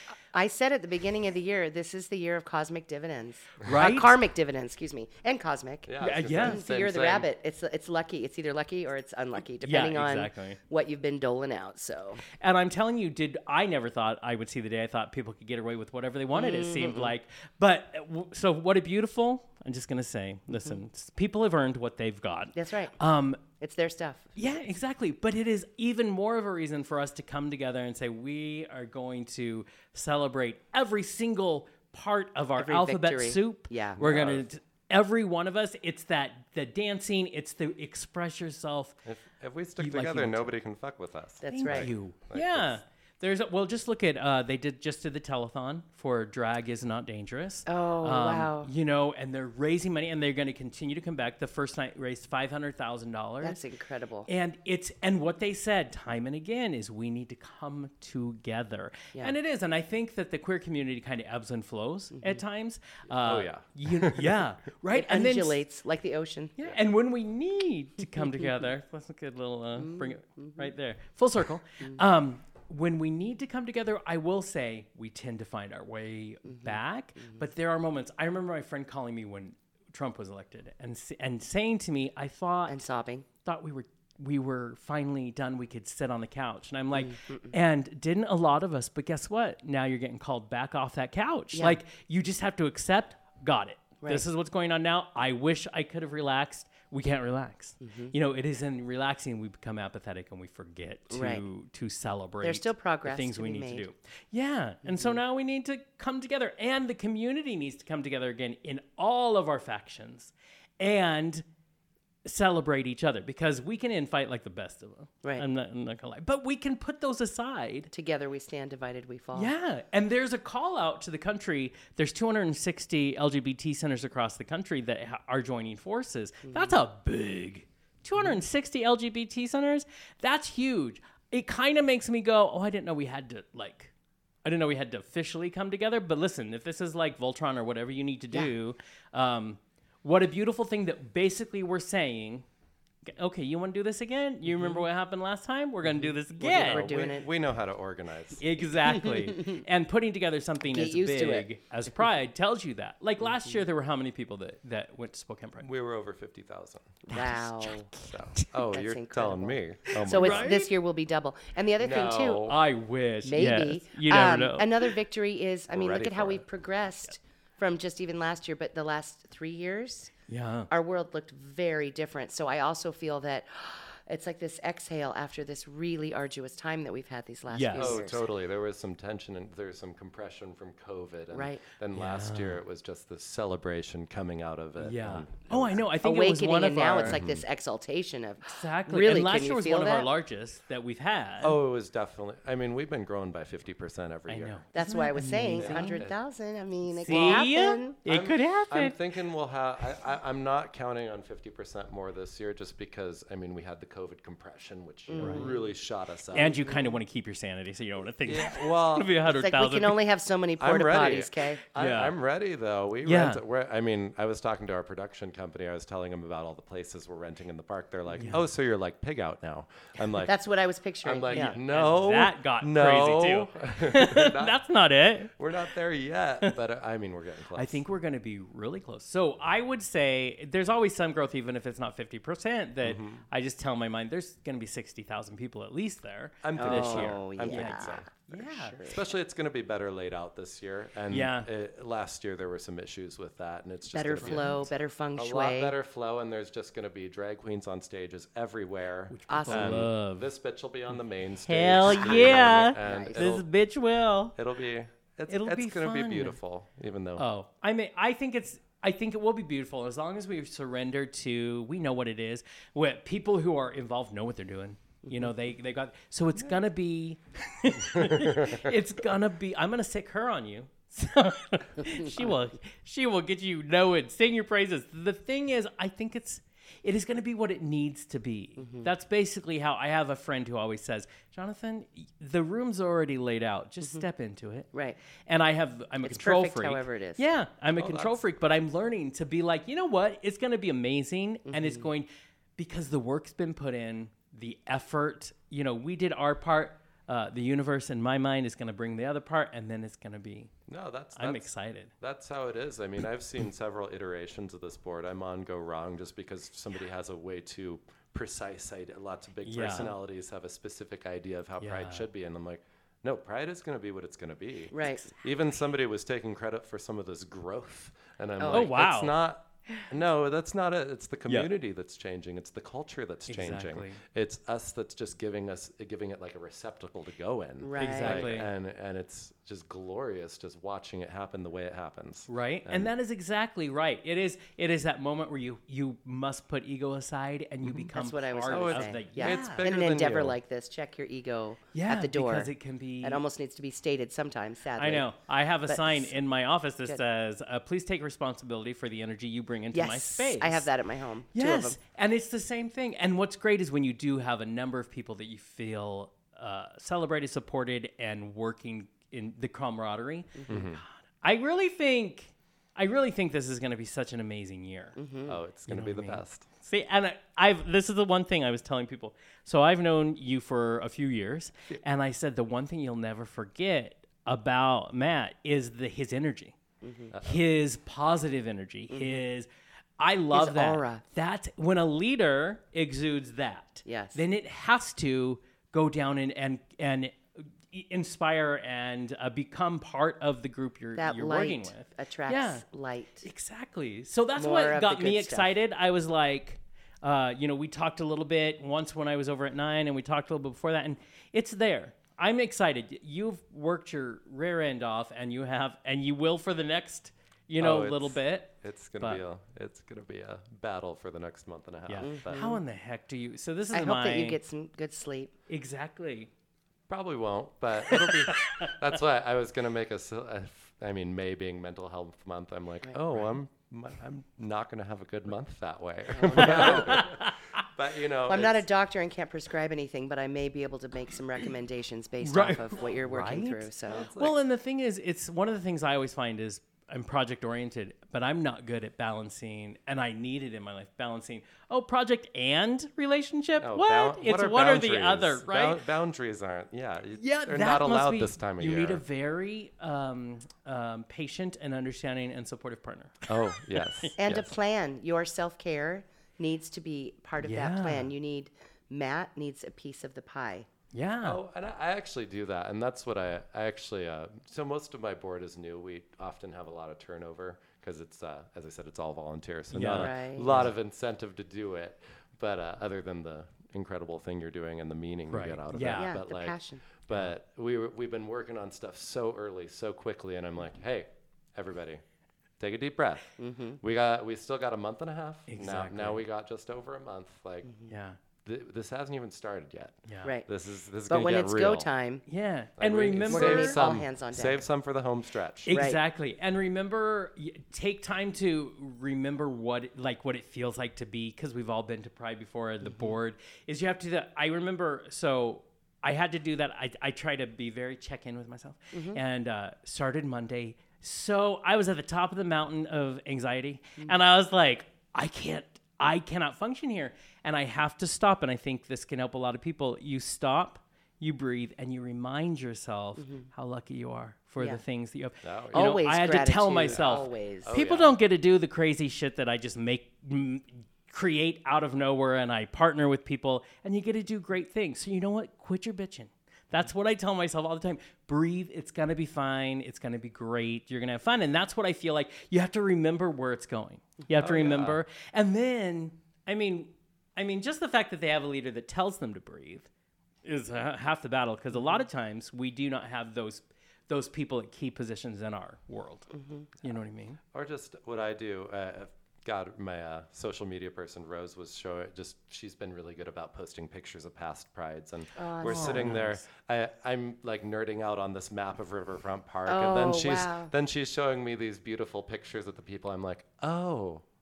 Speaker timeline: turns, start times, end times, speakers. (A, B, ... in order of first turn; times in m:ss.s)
0:00.3-0:12.2 A
0:03.6-0:04.2 B
0:05.9-0:07.3 C
0:06.0-0:06.6 B
0:09.6-0:10.6 B
0:12.4-0:23.4 B
0:16.3-0:17.1 A
0:22.5-0:22.9 A
0:23.6-0:24.3 A
0:24.4-0:39.0 B
0:32.6-0:34.0 A
0:34.0-0:34.5 C
0:39.0-0:42.8 C
0:39.8-0:40.5 B
0:41.4-0:41.9 A
0:41.5-0:53.6 B
0:47.7-0:48.7 A
0:53.4-0:54.3 A
0:54.3-1:05.6 B
1:03.1-1:04.4 C
1:04.9-1:06.6 A
1:06.6-1:22.8 B
1:09.8-1:10.7 A
1:16.5-1:17.4 A
1:22.7-1:23.3 A
1:23.4-1:51.4 B
1:26.9-1:27.6 A
1:31.5-1:31.8 A
1:37.8-1:38.1 A
1:41.1-1:41.4 A
1:42.4-1:43.9 A
1:44.8-1:45.2 A
1:52.2-1:57.9 B
1:57.9-1:59.5 A
1:59.3-2:13.9 B
2:06.4-2:06.8 A
2:14.4-2:22.4 B
2:23.1-2:27.0 B
2:24.5-2:24.8 A
2:25.9-2:27.3 A
2:26.4-2:28.4 C
2:28.4-2:35.7 B
2:28.8-2:29.6 A
2:30.7-2:31.5 A
2:35.6-2:37.0 C
2:37.1-2:37.9 A
2:37.1-2:38.5 B
2:38.1-2:40.5 C
2:38.6-2:42.5 A
2:39.9-2:40.7 B
2:41.8-2:42.6 C
2:42.4-2:44.9 B
2:43.2-2:50.1 A
2:45.7-2:46.4 C
2:50.3-2:50.7 B
2:50.7-2:58.2 A
2:57.5-2:58.0 B
2:57.8-3:05.8 C
3:01.3-3:01.6 A
3:01.9-3:02.6 B
3:04.8-3:07.2 B
3:06.0-3:10.1 A
3:07.0-3:07.4 C
3:08.4-3:11.6 B
3:11.4-3:14.6 C
3:14.3-3:16.0 B
3:14.7-3:18.0 A
3:15.3-3:16.2 C
3:17.0-3:19.0 B
3:17.1-3:17.5 C
3:18.1-3:26.6 C
3:25.1-3:25.6 A
3:25.2-3:25.5 B
3:26.3-3:30.0 B
3:26.3-3:27.0 A
3:28.2-3:29.2 C
3:29.2-3:31.6 A
3:30.6-3:40.3 C
3:31.8-3:32.2 B
3:33.0-3:33.4 B
3:40.2-3:41.6 A
3:41.0-3:44.6 C
3:41.3-3:45.3 B
3:45.4-3:47.8 C
3:47.5-3:58.8 B
3:52.8-3:53.2 C
3:56.4-3:58.1 C
3:56.6-3:59.0 A
3:58.8-4:13.5 C
4:01.1-4:01.5 B
4:03.9-4:05.7 A
4:04.2-4:04.7 B
4:09.1-4:10.3 B
4:09.3-4:09.9 A
4:11.5-4:14.4 B
4:12.0-4:13.3 A
4:14.4-4:17.2 C
4:15.3-4:16.4 B
4:17.2-4:44.7 B
4:28.0-4:28.6 C
4:38.6-4:38.9 A
4:44.7-4:45.0 A
4:45.3-5:00.5 B
4:46.0-4:47.2 A
4:47.8-4:48.2 C
4:51.5-4:51.9 A
5:00.7-5:01.5 C
5:01.2-5:01.9 B
5:02.0-5:32.9 C
5:09.4-5:10.0 B
5:11.6-5:12.1 B
5:14.7-5:15.1 A
5:18.4-5:18.7 A
5:18.5-5:19.2 B
5:23.3-5:24.0 B
5:27.6-5:28.3 A
5:27.8-5:28.5 B
5:32.3-5:39.7 B
5:37.9-5:42.5 A
5:38.5-5:40.4 C
5:41.7-5:43.2 B
5:43.0-5:45.1 A
5:44.8-5:50.7 B
5:45.7-5:46.1 A
5:49.7-5:51.8 A
5:51.3-6:05.0 B
6:00.4-6:00.6 A
6:00.5-6:00.8 C
6:05.0-6:05.4 A
6:05.3-6:06.5 C
6:05.7-6:16.6 B
6:16.8-6:17.1 A
6:17.1-6:17.4 C
6:17.2-6:19.5 B
6:18.9-6:19.2 A
6:20.0-6:32.6 B
6:20.3-6:21.0 A
6:23.9-6:24.2 A
6:31.0-6:33.3 A
6:33.2-6:49.2 B
6:34.4-6:35.5 A
6:47.6-6:52.4 C
6:51.9-6:54.4 B
6:52.0-6:52.6 A
6:53.7-6:55.3 A
6:55.5-6:56.3 B
6:56.9-7:08.7 C
6:57.9-6:58.7 B
7:06.2-7:07.0 A
7:06.3-7:07.4 B
7:08.3-7:14.1 A
7:12.2-7:25.8 B
7:13.9-7:14.4 C
7:23.6-7:29.0 C
7:27.2-7:34.1 B
7:33.3-7:34.6 C
7:34.2-7:40.7 A
7:37.4-7:38.1 B
7:40.9-7:41.4 B
7:41.2-8:02.0 C
7:49.7-7:50.7 B
7:50.0-7:50.6 A
7:55.3-7:56.2 B
7:55.9-7:56.8 A
8:02.6-8:03.3 C
8:03.4-8:03.8 A
8:03.8-8:07.7 C
8:05.5-8:06.2 B
8:07.9-8:08.2 B
8:08.4-8:11.9 C
8:10.1-8:10.3 B
8:11.1-8:12.2 A
8:12.3-8:13.8 B
8:12.8-8:15.8 C
8:13.3-8:14.6 A
8:15.7-9:09.9 B
8:15.7-8:16.0 A
8:22.8-8:23.2 A
8:28.9-8:29.2 A
8:43.2-8:43.5 A
8:45.4-8:46.0 C
8:45.7-8:47.8 A
8:46.9-8:48.2 C
9:04.3-9:05.0 C
9:10.4-9:16.3 B
9:16.4-9:16.7 A
9:16.8-9:17.4 B
9:17.5-9:34.2 C
9:25.4-9:26.1 A
9:25.6-9:26.4 B
9:29.7-9:30.7 A